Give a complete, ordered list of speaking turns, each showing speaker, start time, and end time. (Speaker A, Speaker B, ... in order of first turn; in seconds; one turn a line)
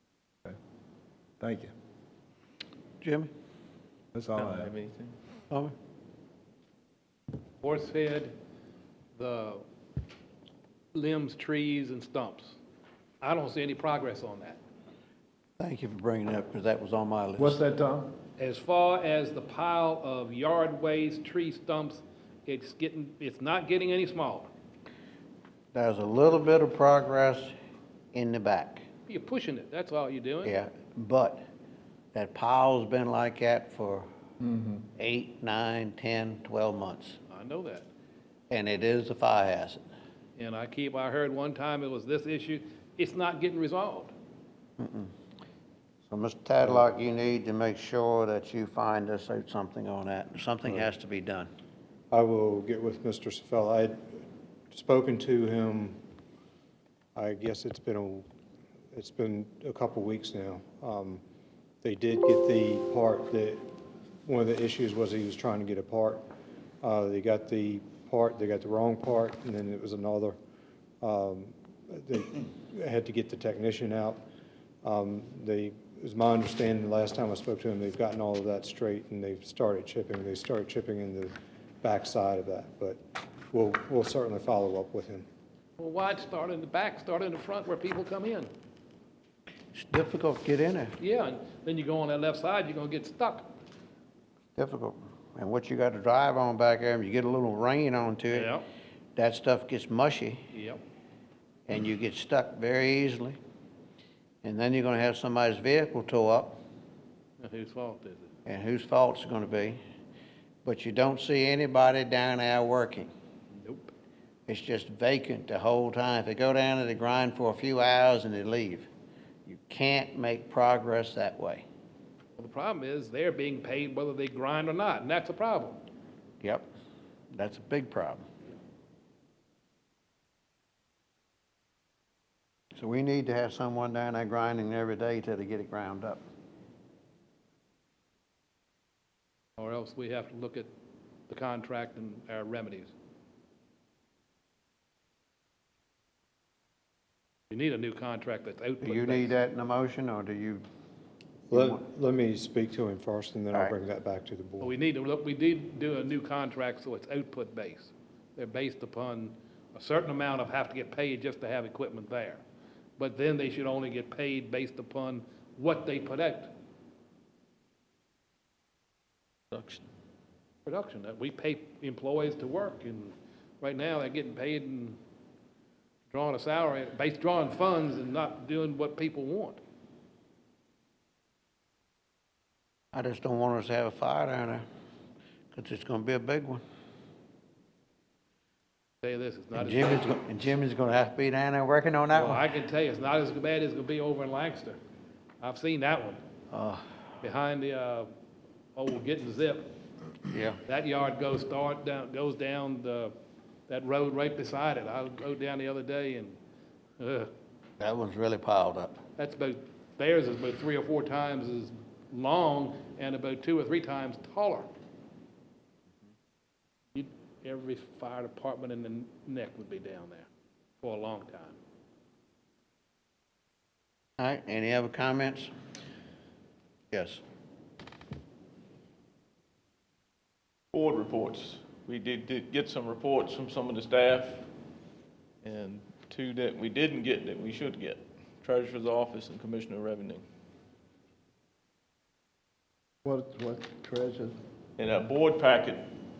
Speaker A: 1.4-1.7
Speaker B: 3.0-3.3
Speaker A: 4.1-4.7
Speaker C: 4.3-5.2
Speaker D: 7.6-8.3
Speaker D: 9.1-9.6
Speaker D: 10.9-12.6
Speaker D: 13.2-14.6
Speaker B: 15.6-17.6
Speaker A: 17.4-18.1
Speaker D: 18.4-24.5
Speaker B: 25.7-27.5
Speaker B: 28.1-28.8
Speaker D: 29.1-30.6
Speaker B: 30.4-31.4
Speaker B: 32.1-34.1
Speaker B: 35.0-37.2
Speaker D: 37.3-37.9
Speaker B: 38.5-39.8
Speaker D: 40.4-44.1
Speaker B: 44.8-45.1
Speaker B: 46.1-51.5
Speaker E: 52.1-54.2
Speaker E: 54.7-56.0
Speaker E: 57.1-58.2
Speaker E: 58.9-61.2
Speaker E: 61.8-63.6
Speaker E: 64.2-66.2
Speaker E: 66.8-70.4
Speaker E: 71.0-74.2
Speaker E: 74.8-85.2
Speaker D: 85.8-88.5
Speaker B: 89.7-91.0
Speaker D: 91.0-93.5
Speaker B: 94.5-98.5
Speaker D: 98.3-98.6
Speaker B: 99.2-100.5
Speaker D: 100.5-100.8
Speaker B: 101.7-103.4
Speaker B: 104.4-106.6
Speaker D: 107.4-108.3
Speaker B: 108.5-109.8
Speaker B: 110.6-113.1
Speaker D: 113.5-113.9
Speaker B: 114.5-118.9
Speaker B: 119.5-121.6
Speaker D: 122.3-125.8
Speaker B: 126.4-126.7
Speaker B: 127.3-128.2
Speaker B: 132.7-136.2
Speaker D: 139.6-140.7
Speaker D: 141.3-142.9
Speaker D: 147.5-149.3
Speaker B: 148.8-150.6
Speaker E: 151.5-154.7
Speaker B: 151.5-151.8
Speaker D: 154.6-162.4
Speaker D: 163.0-166.5
Speaker C: 169.5-169.9
Speaker D: 170.7-175.0
Speaker D: 176.1-179.6
Speaker B: 182.9-184.6
Speaker B: 185.5-186.6
Speaker D: 189.0-190.0
Speaker B: 189.5-192.4
Speaker D: 192.1-194.8
Speaker D: 195.4-196.2
Speaker B: 196.5-196.9
Speaker D: 197.2-198.1
Speaker D: 198.7-199.7
Speaker B: 200.3-200.6
Speaker D: 200.6-203.1
Speaker D: 203.7-206.4
Speaker D: 207.0-207.3
Speaker B: 207.8-209.0
Speaker D: 209.2-214.7
Speaker D: 216.9-220.3
Speaker D: 220.8-221.6
Speaker B: 224.2-225.5
Speaker B: 226.9-227.2
Speaker C: 230.7-234.5
Speaker C: 235.4-240.2
Speaker A: 243.0-244.4
Speaker C: 244.8-245.9